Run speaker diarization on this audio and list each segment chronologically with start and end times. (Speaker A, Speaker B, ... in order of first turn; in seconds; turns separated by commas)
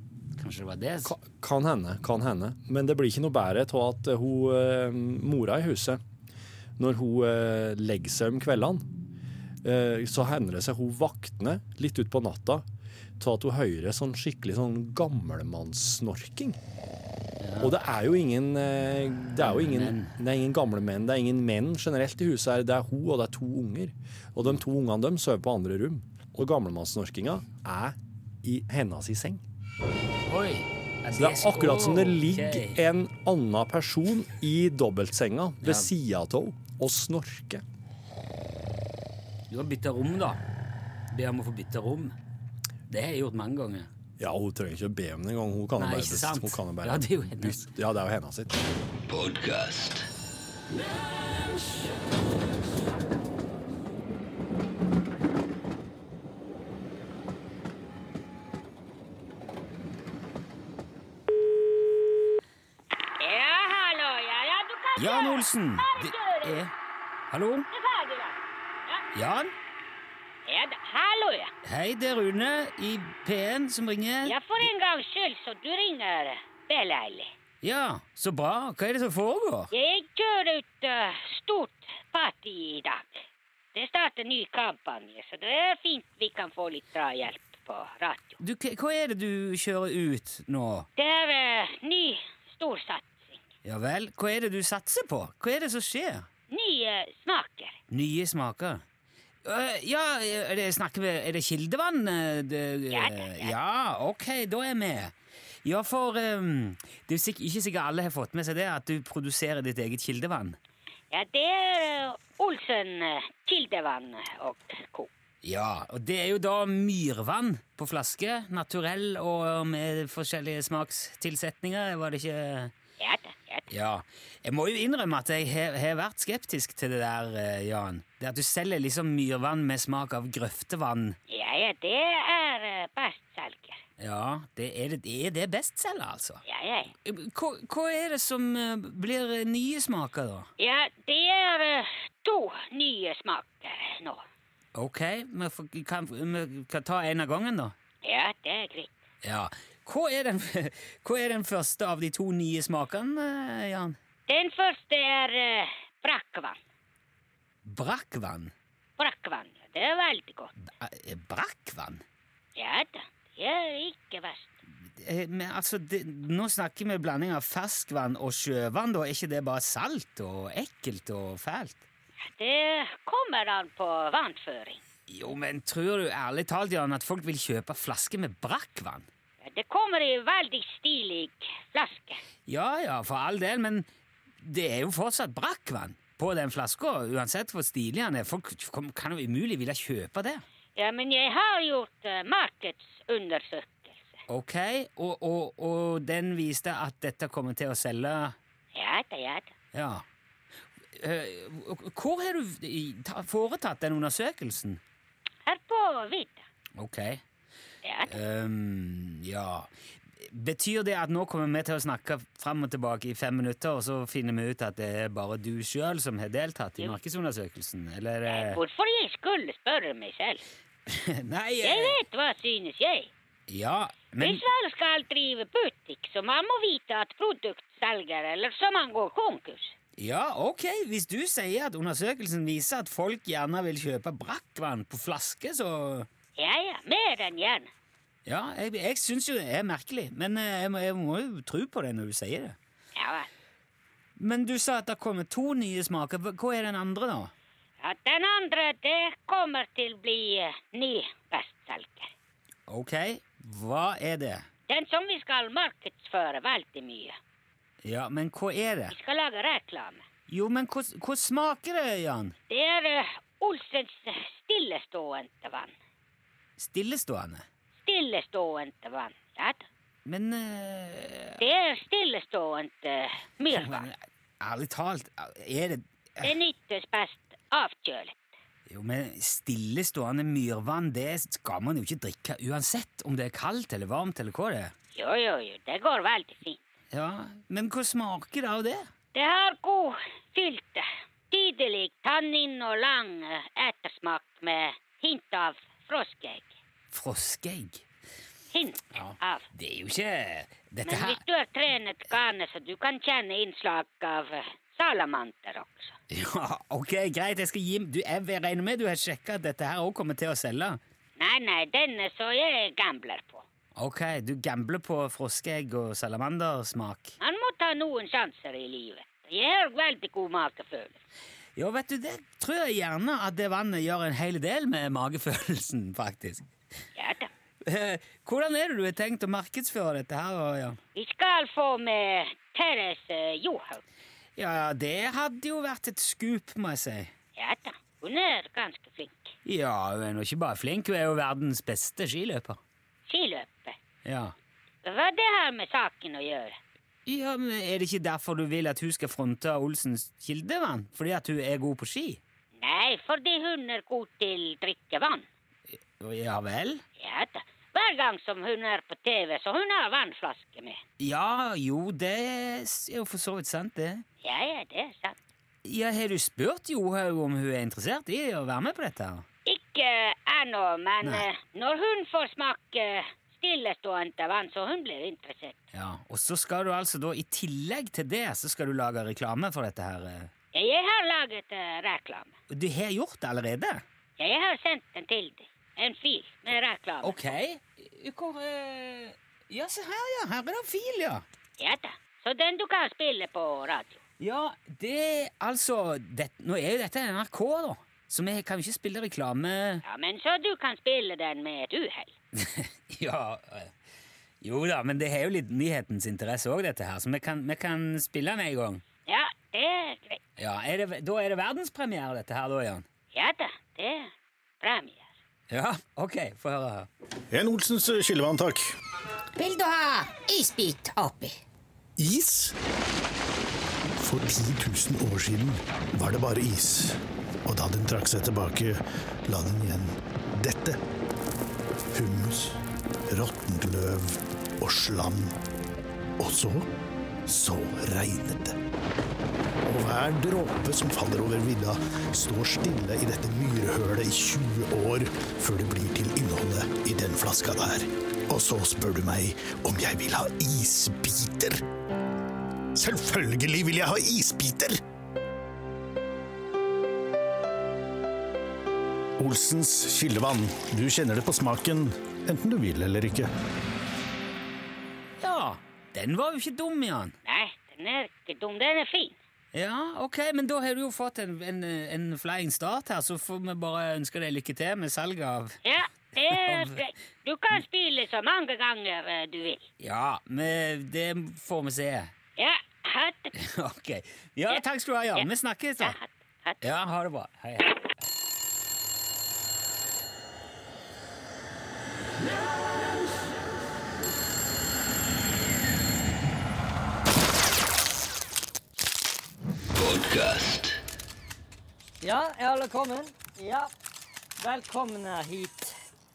Speaker A: 0.4-1.1, Speaker B: 1.1-6.0, Speaker B: 6.8-8.9, Speaker B: 9.6-12.7, Speaker B: 13.2-16.6, Speaker A: 17.4-17.7, Speaker B: 17.6-29.4, Speaker A: 19.4-20.2, Speaker A: 30.3-32.8, Speaker B: 31.1-37.6, Speaker A: 35.6-35.9, Speaker A: 39.5-40.4, Speaker A: 41.1-42.2, Speaker A: 42.9-43.9, Speaker B: 44.2-48.6, Speaker A: 45.8-47.7, Speaker C: 63.2-66.6, Speaker A: 65.0-66.7, Speaker A: 67.3-67.7, Speaker C: 67.7-69.0, Speaker A: 69.1-69.5, Speaker C: 70.5-71.5, Speaker A: 71.7-74.6, Speaker C: 74.2-77.3, Speaker A: 77.6-79.7, Speaker C: 79.7-88.4, Speaker A: 88.4-90.9, Speaker C: 91.0-93.4, Speaker A: 93.7-96.3, Speaker C: 96.5-97.8, Speaker A: 97.9-98.8, Speaker A: 99.4-110.6, Speaker C: 102.9-103.5, Speaker C: 111.1-115.1, Speaker A: 115.4-122.7, Speaker C: 123.0-123.7, Speaker A: 123.7-131.2, Speaker C: 131.3-133.8, Speaker A: 134.0-136.4, Speaker C: 136.5-136.9, Speaker A: 137.1-140.5, Speaker C: 140.6-144.2, Speaker A: 144.8-147.8, Speaker C: 148.0-148.9, Speaker A: 149.2-154.0, Speaker C: 154.3-156.6, Speaker A: 157.7-158.5, Speaker C: 159.0-160.5, Speaker A: 160.7-162.0, Speaker C: 162.6-164.5, Speaker A: 165.0-171.8, Speaker C: 172.2-174.8, Speaker A: 175.1-179.1, Speaker C: 179.4-182.2, Speaker A: 182.5-183.9, Speaker A: 184.4-190.4, Speaker C: 190.8-194.2, Speaker A: 194.3-198.4, Speaker C: 198.8-199.5, Speaker A: 199.7-200.0, Speaker A: 200.9-204.8, Speaker C: 205.4-206.4, Speaker A: 206.8-207.2, Speaker C: 207.8-208.2, Speaker A: 208.1-218.6, Speaker C: 218.3-220.4, Speaker A: 220.9-222.0, Speaker C: 221.6-223.1, Speaker A: 223.5-224.4, Speaker C: 224.2-229.8, Speaker A: 230.0-236.1, Speaker C: 236.4-237.7, Speaker A: 238.3-242.6, Speaker C: 242.9-243.3, Speaker A: 244.2-247.3, Speaker C: 247.8-252.1, Speaker A: 252.7-254.5, Speaker C: 254.7-257.2, Speaker A: 257.8-258.9, Speaker C: 258.9-260.1, Speaker A: 260.3-262.4, Speaker C: 262.5-265.7, Speaker A: 266.6-267.5, Speaker C: 267.8-269.6, Speaker A: 270.1-271.4, Speaker C: 271.4-273.9, Speaker A: 273.5-276.3, Speaker C: 276.2-278.2, Speaker A: 278.7-284.7, Speaker C: 284.9-286.6, Speaker A: 286.9-288.9, Speaker C: 289.1-296.5, Speaker A: 296.9-297.9, Speaker C: 298.5-299.5, Speaker A: 298.9-301.2, Speaker C: 300.9-305.9, Speaker A: 306.1-310.8, Speaker C: 311.2-313.4, Speaker A: 313.8-317.2, Speaker C: 317.2-321.0, Speaker A: 321.6-326.5, Speaker C: 327.0-327.3, Speaker A: 327.6-330.8, Speaker C: 330.9-333.8, Speaker A: 334.4-337.1, Speaker C: 337.4-339.3, Speaker A: 339.4-342.6, Speaker C: 343.1-343.8, Speaker A: 344.1-344.4, Speaker C: 344.8-346.6, Speaker A: 347.1-352.2, Speaker C: 352.6-355.2, Speaker A: 356.0-356.8, Speaker C: 357.0-360.8, Speaker A: 361.0-364.1, Speaker C: 364.2-365.2, Speaker A: 365.6-369.3, Speaker C: 369.5-375.6, Speaker A: 375.7-380.3, Speaker C: 380.5-382.4, Speaker A: 382.5-383.8, Speaker C: 384.2-387.1, Speaker A: 387.0-391.2, Speaker C: 391.6-394.0, Speaker A: 394.2-399.8, Speaker C: 399.8-402.1, Speaker A: 402.4-403.7, Speaker A: 404.4-408.8, Speaker C: 409.1-410.2, Speaker A: 410.4-412.9, Speaker C: 413.1-415.1, Speaker A: 415.5-416.9, Speaker D: 417.3-418.8, Speaker E: 419.4-421.3, Speaker D: 422.0-422.6, Speaker D: 424.0-430.8, Speaker D: 431.9-435.4, Speaker D: 436.2-436.7, Speaker D: 437.3-438.6, Speaker D: 439.6-451.6, Speaker D: 452.8-454.8, Speaker D: 459.2-463.3, Speaker A: 465.2-467.1, Speaker C: 467.2-469.2, Speaker A: 469.5-475.6, Speaker C: 475.6-479.7, Speaker A: 476.2-476.8, Speaker A: 479.8-482.1, Speaker C: 482.4-483.3, Speaker A: 483.4-486.0, Speaker C: 485.8-486.6, Speaker A: 486.6-488.0, Speaker F: 502.0-503.7, Speaker F: 504.4-505.8